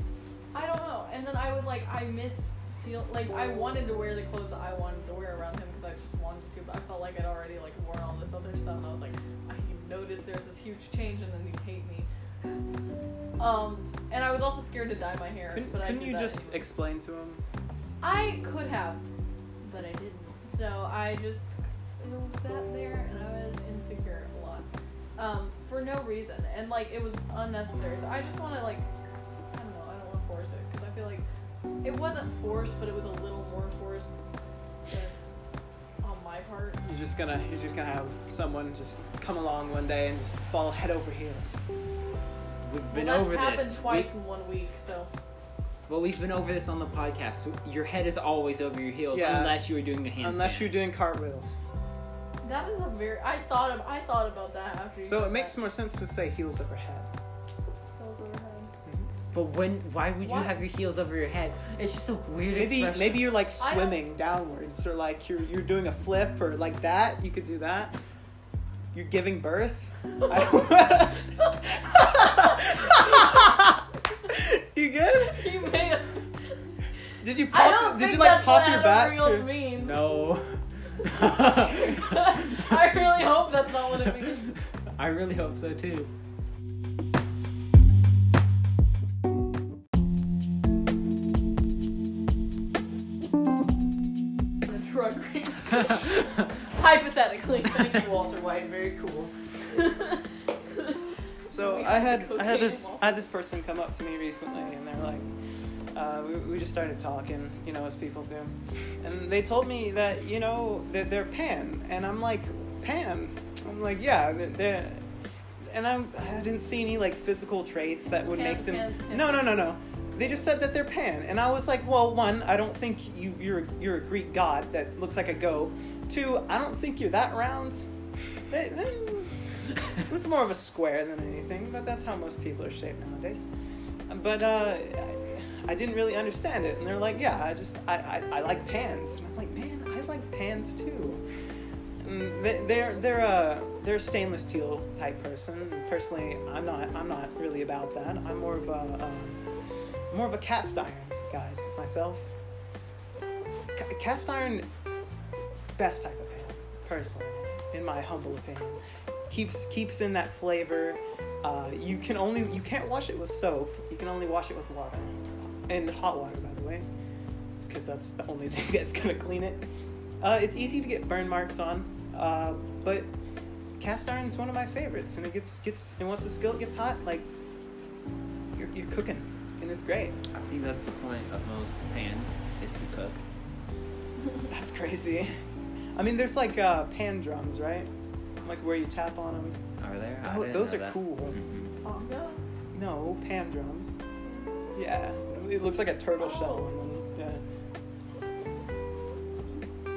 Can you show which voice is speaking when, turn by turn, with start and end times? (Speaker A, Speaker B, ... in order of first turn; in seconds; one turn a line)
Speaker A: 0.5-12.1
Speaker A: 13.4-16.6
Speaker B: 15.5-17.4
Speaker A: 18.0-19.0
Speaker A: 19.6-24.7
Speaker A: 25.2-28.9
Speaker A: 29.5-31.2
Speaker A: 31.8-34.1
Speaker A: 34.9-35.1
Speaker A: 36.0-36.8
Speaker B: 36.8-41.6
Speaker C: 42.6-44.1
Speaker A: 42.9-45.1
Speaker C: 45.9-50.8
Speaker B: 49.1-49.6
Speaker B: 50.2-51.6
Speaker A: 52.4-55.6
Speaker B: 55.0-57.1
Speaker A: 58.0-58.7
Speaker C: 59.3-63.4
Speaker A: 60.2-60.6
Speaker B: 62.5-68.0
Speaker A: 63.6-64.0
Speaker B: 68.9-75.5
Speaker A: 75.1-76.7
Speaker B: 77.2-79.5
Speaker A: 77.5-80.0
Speaker C: 79.8-82.0
Speaker A: 81.2-84.5
Speaker C: 85.0-86.1
Speaker A: 94.7-98.1
Speaker B: 97.7-99.3
Speaker A: 99.7-103.1
Speaker B: 101.5-105.3
Speaker B: 105.9-115.0
Speaker B: 115.6-127.8
Speaker A: 118.3-119.8
Speaker B: 128.5-129.3
Speaker B: 130.0-133.4
Speaker B: 134.1-141.2
Speaker B: 142.0-149.4
Speaker B: 150.1-152.3
Speaker B: 153.8-154.7
Speaker B: 155.8-165.1
Speaker B: 165.7-166.9
Speaker B: 167.7-169.6
Speaker B: 170.2-173.1
Speaker B: 173.8-177.3
Speaker B: 178.6-180.2
Speaker C: 180.3-183.2
Speaker B: 184.5-185.3
Speaker B: 185.9-187.9
Speaker B: 188.4-189.6
Speaker C: 189.8-191.7
Speaker B: 190.2-191.4
Speaker A: 191.8-192.5
Speaker B: 192.7-194.0
Speaker A: 194.2-194.6
Speaker B: 194.8-197.4
Speaker A: 196.2-196.7